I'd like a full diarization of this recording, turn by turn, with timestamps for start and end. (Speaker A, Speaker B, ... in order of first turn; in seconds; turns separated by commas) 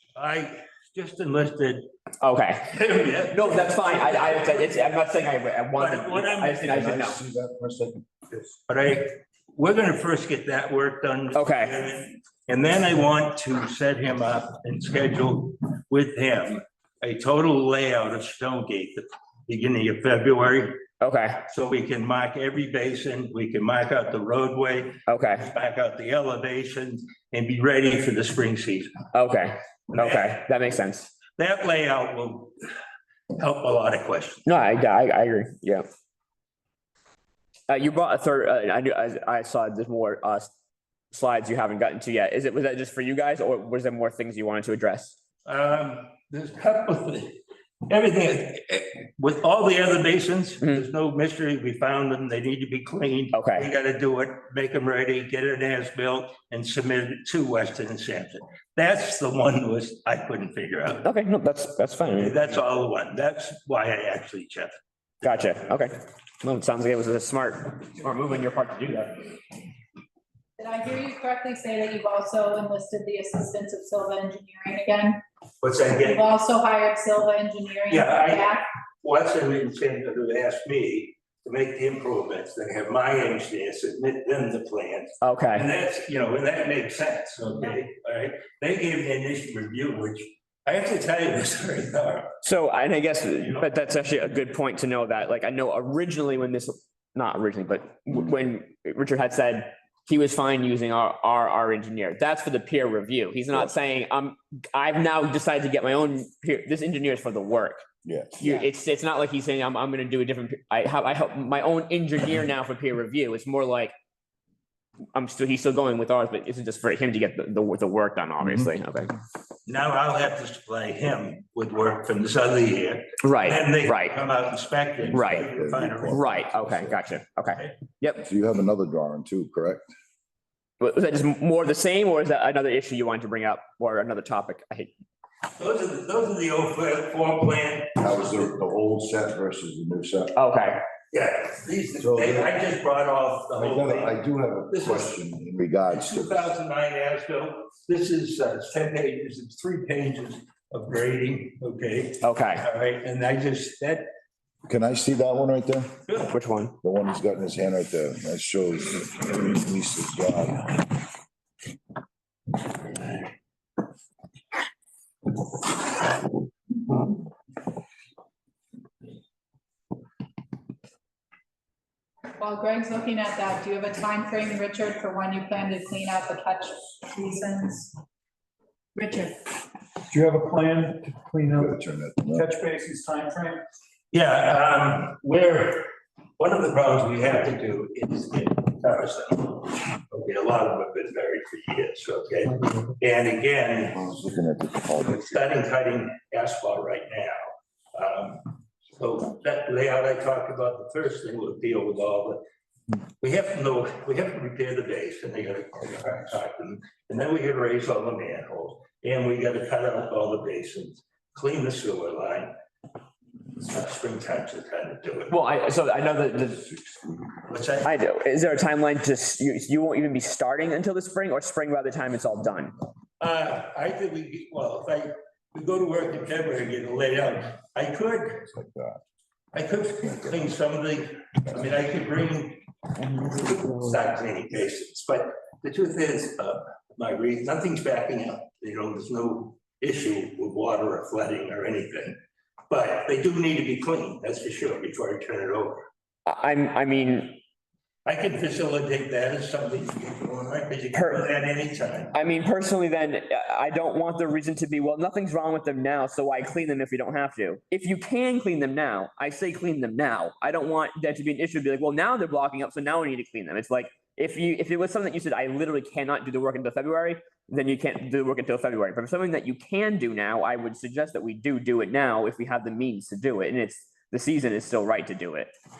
Speaker A: 0.1-1.9, Speaker B: 2.2-2.7, Speaker A: 2.6-4.7, Speaker B: 3.3-7.2, Speaker A: 5.7-6.8, Speaker C: 6.7-8.5, Speaker A: 8.7-20.8, Speaker B: 11.3-11.7, Speaker B: 21.0-21.4, Speaker A: 21.5-29.0, Speaker B: 25.1-25.5, Speaker B: 29.1-31.1, Speaker A: 29.9-30.4, Speaker A: 31.4-32.6, Speaker A: 33.3-34.5, Speaker B: 34.5-35.9, Speaker B: 37.7-40.5, Speaker B: 41.1-45.2, Speaker A: 45.4-61.1, Speaker B: 53.3-53.7, Speaker B: 61.0-62.4, Speaker A: 62.1-64.8, Speaker B: 65.2-69.4, Speaker D: 70.6-75.2, Speaker A: 75.6-76.3, Speaker D: 76.0-78.6, Speaker A: 77.9-92.3, Speaker B: 85.2-85.7, Speaker B: 92.4-107.8, Speaker C: 108.0-108.6, Speaker B: 108.4-113.9, Speaker B: 115.1-119.2, Speaker A: 119.7-126.3, Speaker B: 123.2-124.2, Speaker C: 125.0-127.0, Speaker B: 125.1-125.5, Speaker B: 126.0-128.2, Speaker C: 128.2-129.9, Speaker B: 130.8-134.9, Speaker A: 135.6-138.4, Speaker C: 138.0-140.3, Speaker B: 140.3-140.8, Speaker A: 141.1-144.2, Speaker C: 142.0-142.5, Speaker C: 143.6-146.5, Speaker A: 144.7-145.1, Speaker A: 145.9-154.1, Speaker B: 152.2-152.6, Speaker C: 154.7-156.0, Speaker A: 156.1-156.3, Speaker B: 156.3-156.8, Speaker C: 156.8-160.8, Speaker D: 172.4-177.9, Speaker D: 178.9-179.4, Speaker E: 180.1-181.7, Speaker C: 181.6-182.4, Speaker E: 182.3-183.6, Speaker A: 184.1-194.0, Speaker C: 193.9-195.3, Speaker A: 195.0-202.4, Speaker A: 203.2-212.5, Speaker A: 213.6-215.3, Speaker B: 215.3-216.7, Speaker C: 216.8-217.1, Speaker A: 217.5-217.9, Speaker B: 217.8-222.7, Speaker A: 223.2-228.4, Speaker C: 228.4-229.0, Speaker A: 229.5-242.2, Speaker C: 230.0-230.4, Speaker A: 242.7-245.9, Speaker B: 246.2-247.4, Speaker A: 248.1-252.1, Speaker B: 250.9-251.2, Speaker B: 252.1-275.5